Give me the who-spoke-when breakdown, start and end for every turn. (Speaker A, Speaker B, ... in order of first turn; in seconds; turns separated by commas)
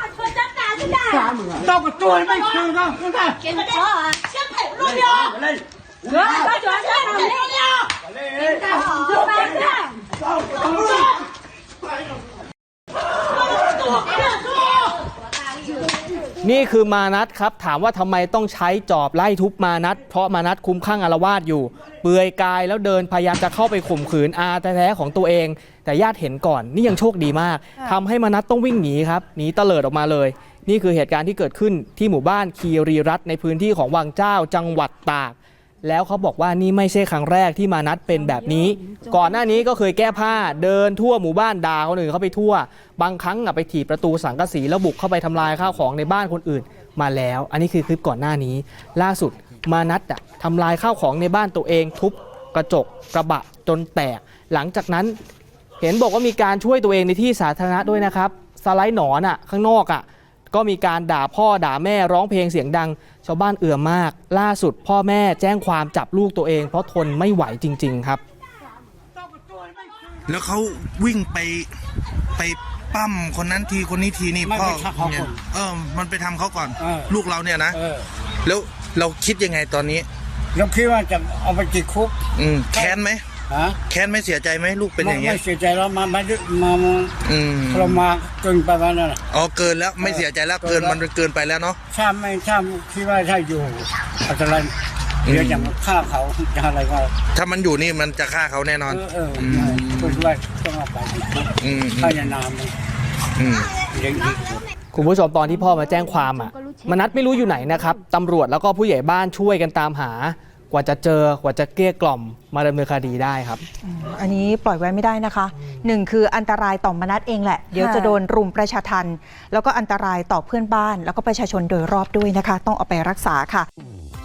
Speaker A: 0.5-1.4, Speaker B: 1.5-3.5, Speaker A: 3.6-4.2, Speaker A: 4.8-5.2, Speaker A: 6.1-7.8, Speaker A: 8.4-9.9, Speaker C: 16.4-55.2, Speaker C: 55.8-68.2, Speaker D: 70.3-71.7, Speaker D: 72.4-77.8, Speaker B: 74.4-75.4, Speaker B: 76.8-77.2, Speaker B: 77.7-78.1, Speaker D: 78.4-80.1, Speaker B: 80.5-82.2, Speaker D: 82.3-83.2, Speaker B: 83.5-83.8, Speaker D: 83.9-85.4, Speaker B: 85.0-89.2, Speaker D: 87.2-88.0, Speaker D: 89.3-91.8, Speaker B: 90.0-91.0, Speaker B: 91.9-94.7, Speaker D: 95.3-95.7, Speaker B: 95.3-97.1, Speaker D: 97.3-100.3, Speaker B: 98.9-102.7, Speaker D: 101.6-102.2, Speaker D: 103.4-103.8, Speaker B: 103.9-104.6, Speaker C: 104.9-113.7, Speaker E: 113.8-123.7